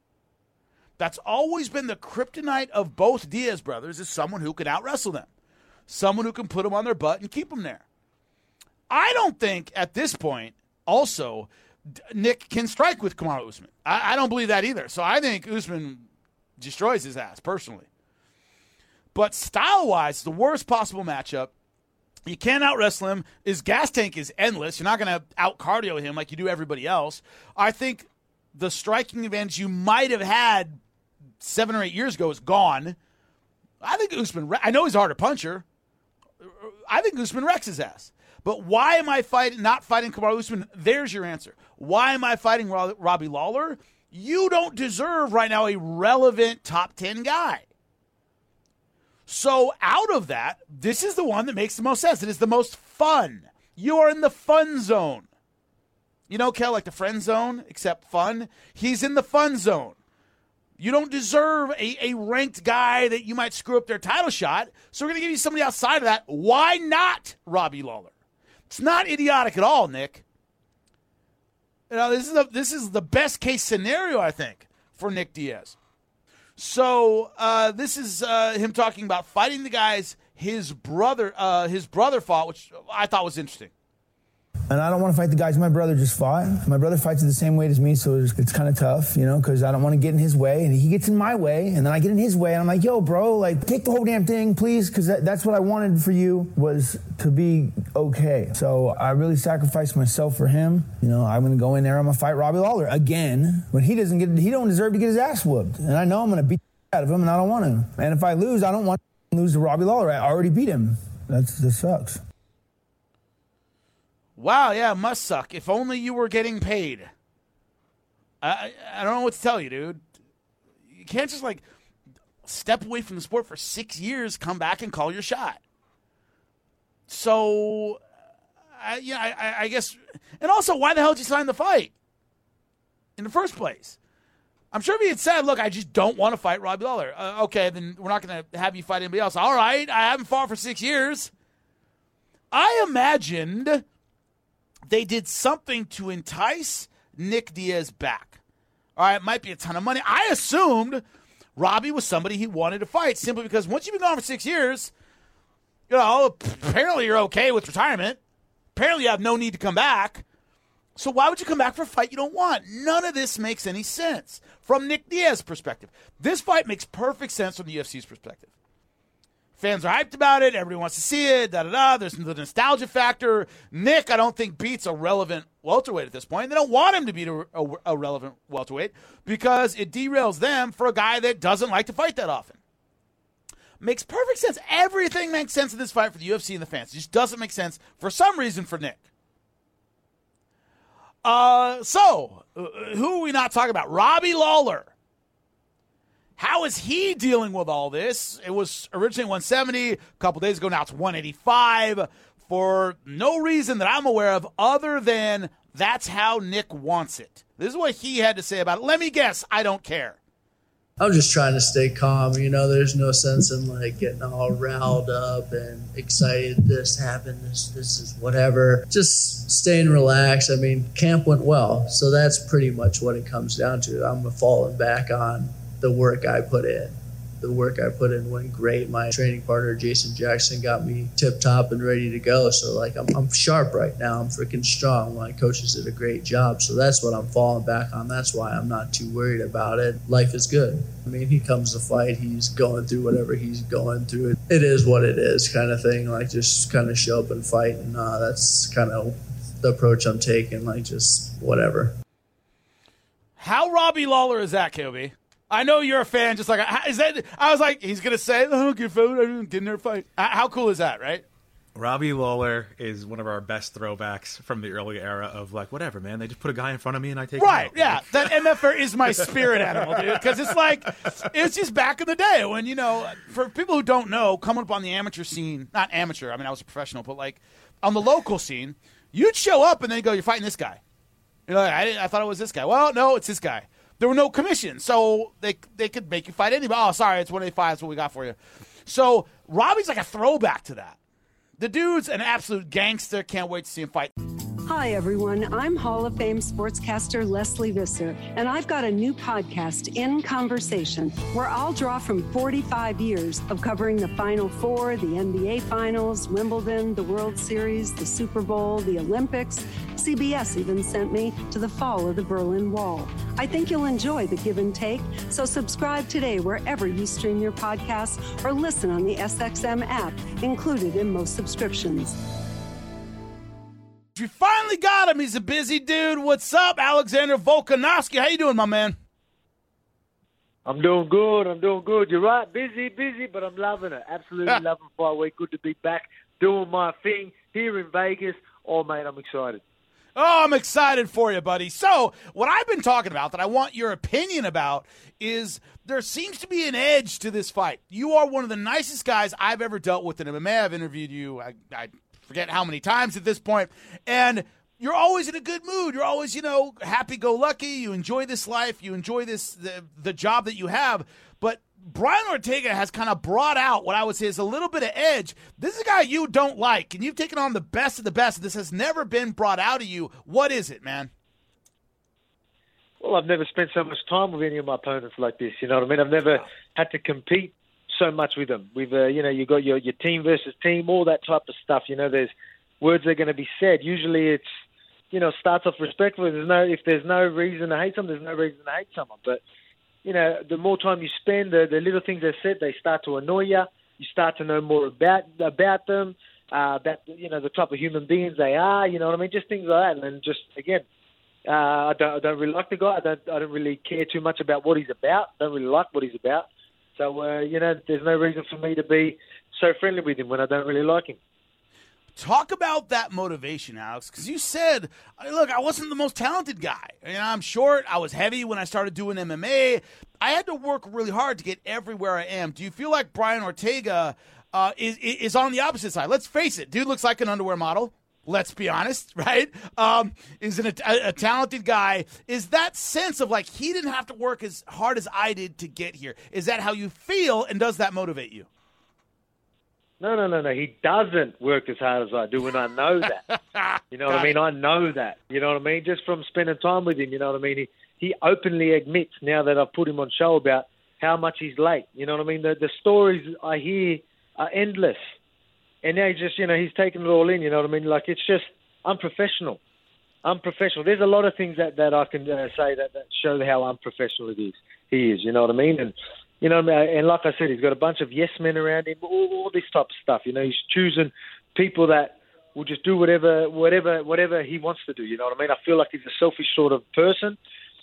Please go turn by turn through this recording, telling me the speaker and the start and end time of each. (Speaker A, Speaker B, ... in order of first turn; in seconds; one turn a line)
Speaker A: 1.0-5.3
Speaker A: 5.9-7.8
Speaker A: 8.9-17.9
Speaker A: 19.1-21.5
Speaker A: 22.3-30.8
Speaker A: 31.4-33.0
Speaker A: 33.8-35.6
Speaker A: 36.4-47.6
Speaker A: 49.3-55.3
Speaker A: 56.3-60.0
Speaker A: 60.8-68.1
Speaker A: 68.7-70.2
Speaker A: 71.9-75.8
Speaker A: 76.6-83.7
Speaker B: 84.7-112.2
Speaker A: 114.4-117.1
Speaker A: 118.4-120.0
Speaker A: 120.9-121.6
Speaker A: 122.4-125.6
Speaker A: 127.1-128.0
Speaker A: 128.8-131.9
Speaker A: 133.2-134.0
Speaker A: 134.7-141.3
Speaker A: 142.5-143.8
Speaker A: 144.9-148.4
Speaker A: 148.9-151.0
Speaker A: 151.6-154.9
Speaker A: 155.9-158.2
Speaker A: 158.7-160.2
Speaker A: 160.9-168.5
Speaker A: 169.6-182.6
Speaker A: 183.8-189.0
Speaker A: 191.2-194.9
Speaker A: 196.4-210.2
Speaker C: 211.0-251.9
Speaker A: 253.4-261.2
Speaker D: 261.7-268.6
Speaker A: 267.4-280.8
Speaker D: 269.2-271.1
Speaker A: 281.5-291.0
Speaker A: 291.6-294.1
Speaker E: 294.6-322.1
Speaker A: 324.1-328.9
Speaker F: 330.6-339.6
Speaker A: 340.1-371.1
Speaker F: 373.0-384.4
Speaker F: 385.1-389.4
Speaker F: 390.0-400.8
Speaker F: 401.4-411.2
Speaker A: 412.1-438.5
Speaker F: 440.0-443.2
Speaker A: 443.5-444.3
Speaker F: 443.9-455.0
Speaker F: 455.8-459.6
Speaker F: 460.2-477.4